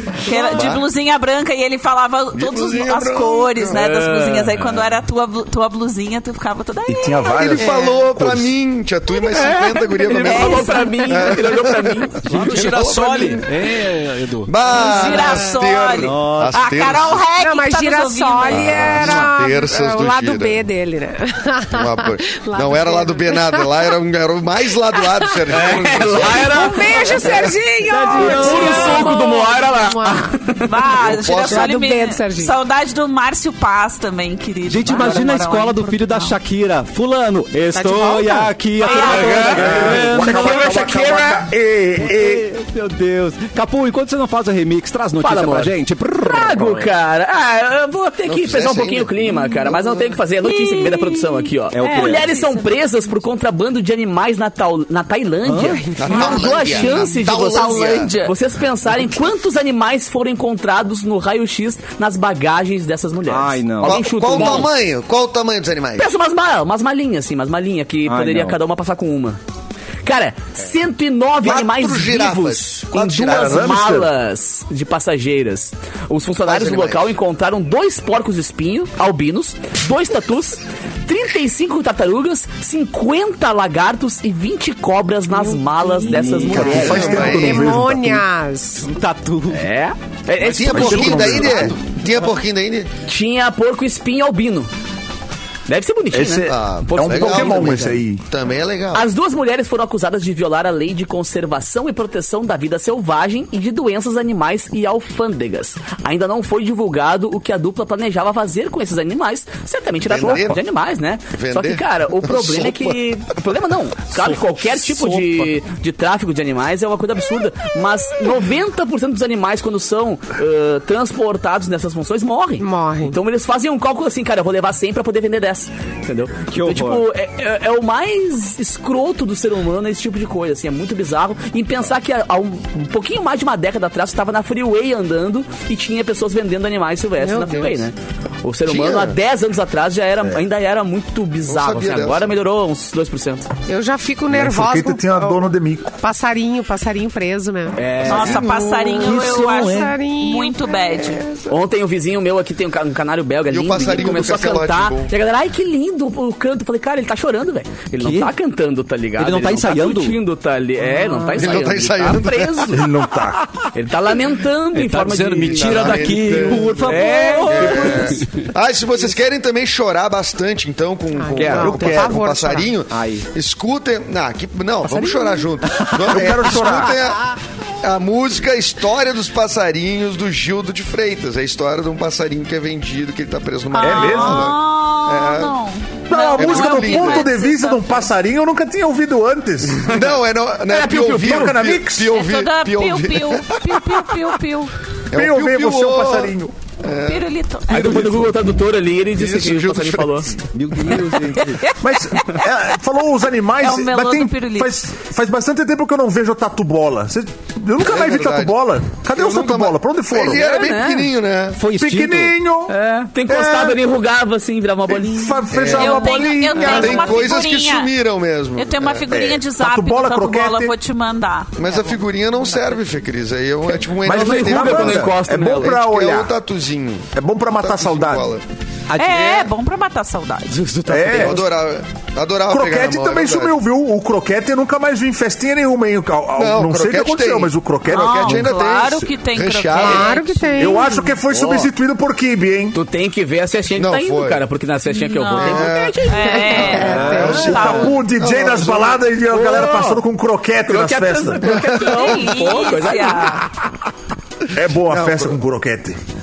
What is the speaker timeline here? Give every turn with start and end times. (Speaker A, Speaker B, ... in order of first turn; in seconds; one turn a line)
Speaker A: 0.2-7.6
Speaker B: 0.3-0.6
Speaker C: 0.5-0.8
Speaker C: 2.3-3.8
Speaker D: 3.7-4.9
Speaker E: 6.9-8.5
Speaker C: 7.4-13.5
Speaker B: 7.5-8.1
Speaker D: 9.2-12.8
Speaker A: 10.2-11.3
Speaker F: 12.3-12.6
Speaker G: 12.3-14.5
Speaker C: 14.5-17.2
Speaker A: 14.7-18.9
Speaker B: 14.8-15.4
Speaker F: 16.0-16.6
Speaker B: 17.4-23.9
Speaker F: 18.5-19.3
Speaker C: 18.8-20.7
Speaker C: 21.7-26.7
Speaker B: 24.9-25.5
Speaker D: 25.5-30.7
Speaker B: 26.2-30.4
Speaker C: 27.2-27.5
Speaker F: 27.9-29.1
Speaker A: 30.6-36.3
Speaker C: 31.0-31.8
Speaker B: 31.0-32.6
Speaker F: 34.7-40.9
Speaker B: 37.7-38.6
Speaker A: 38.8-39.4
Speaker D: 38.8-41.4
Speaker E: 39.1-42.5
Speaker F: 42.0-46.9
Speaker D: 45.2-64.7
Speaker C: 48.2-49.9
Speaker A: 50.4-53.3
Speaker F: 51.7-52.4
Speaker F: 55.5-55.8
Speaker B: 55.7-56.4
Speaker C: 56.0-58.1
Speaker A: 56.1-58.4
Speaker F: 63.3-64.7
Speaker C: 63.8-66.0
Speaker D: 66.0-69.4
Speaker F: 68.0-68.6
Speaker D: 70.0-87.1
Speaker C: 71.4-73.8
Speaker E: 73.3-74.1
Speaker C: 76.4-77.1
Speaker B: 85.3-88.9
Speaker F: 86.1-87.2
Speaker E: 86.4-88.2
Speaker C: 86.7-87.8
Speaker F: 88.8-89.7
Speaker D: 89.5-91.8
Speaker C: 90.4-92.9
Speaker E: 90.7-91.7
Speaker D: 93.1-94.7
Speaker D: 95.7-98.0
Speaker E: 96.1-98.2
Speaker C: 96.5-99.1
Speaker D: 98.9-143.5
Speaker C: 110.0-110.6
Speaker C: 111.3-113.0
Speaker B: 122.6-123.2
Speaker F: 126.5-127.0
Speaker B: 137.2-137.9
Speaker C: 138.7-139.2
Speaker C: 141.5-142.4
Speaker B: 143.7-151.6
Speaker E: 144.3-145.9
Speaker D: 147.8-148.5
Speaker F: 148.0-150.0
Speaker A: 148.1-151.2
Speaker D: 151.5-162.9
Speaker C: 153.5-155.1
Speaker F: 158.0-158.3
Speaker F: 159.2-160.2
Speaker B: 160.9-161.4
Speaker C: 161.4-162.8
Speaker E: 162.7-163.7
Speaker D: 163.7-166.1
Speaker G: 164.7-166.9
Speaker C: 165.5-185.6
Speaker F: 166.4-168.2
Speaker D: 166.8-168.1
Speaker B: 171.1-172.7
Speaker D: 171.4-171.9
Speaker F: 172.9-173.3
Speaker B: 174.9-175.6
Speaker F: 175.6-176.8
Speaker E: 176.1-177.0
Speaker A: 183.7-188.1
Speaker E: 183.8-184.6
Speaker E: 186.1-190.0
Speaker C: 186.3-187.3
Speaker C: 189.8-194.0
Speaker E: 190.7-192.2
Speaker D: 190.9-191.6
Speaker A: 192.1-194.7
Speaker C: 195.1-197.3
Speaker E: 195.1-196.5
Speaker A: 197.1-198.1
Speaker D: 197.7-200.3
Speaker C: 199.1-200.4
Speaker F: 200.5-201.6
Speaker D: 200.9-201.2
Speaker A: 201.3-202.4
Speaker E: 201.8-210.6
Speaker A: 203.6-204.8
Speaker C: 207.8-211.6
Speaker D: 210.4-211.1
Speaker F: 211.6-212.3
Speaker E: 211.7-212.7
Speaker D: 212.7-215.8
Speaker E: 213.3-213.8
Speaker E: 214.9-217.3
Speaker C: 215.5-219.1
Speaker A: 215.7-217.9
Speaker D: 216.6-217.1
Speaker A: 218.6-221.5
Speaker E: 219.1-220.7
Speaker C: 221.6-225.1
Speaker E: 224.0-226.3
Speaker D: 224.1-225.8
Speaker C: 225.7-228.4
Speaker E: 227.1-228.3
Speaker F: 228.9-229.5
Speaker A: 229.0-230.6
Speaker F: 230.5-231.4
Speaker E: 230.9-231.4
Speaker C: 231.1-233.6
Speaker E: 232.5-238.5
Speaker C: 236.4-240.4
Speaker A: 237.9-240.5
Speaker B: 239.8-241.2
Speaker E: 240.6-242.8
Speaker C: 241.3-241.7
Speaker D: 242.7-247.2
Speaker C: 243.8-244.4
Speaker A: 244.9-248.0
Speaker C: 245.3-249.1
Speaker B: 246.2-247.4
Speaker F: 246.9-247.8
Speaker E: 247.1-251.8
Speaker D: 249.3-250.0
Speaker D: 250.7-253.5
Speaker A: 251.8-253.5
Speaker E: 254.5-256.0
Speaker C: 254.8-255.4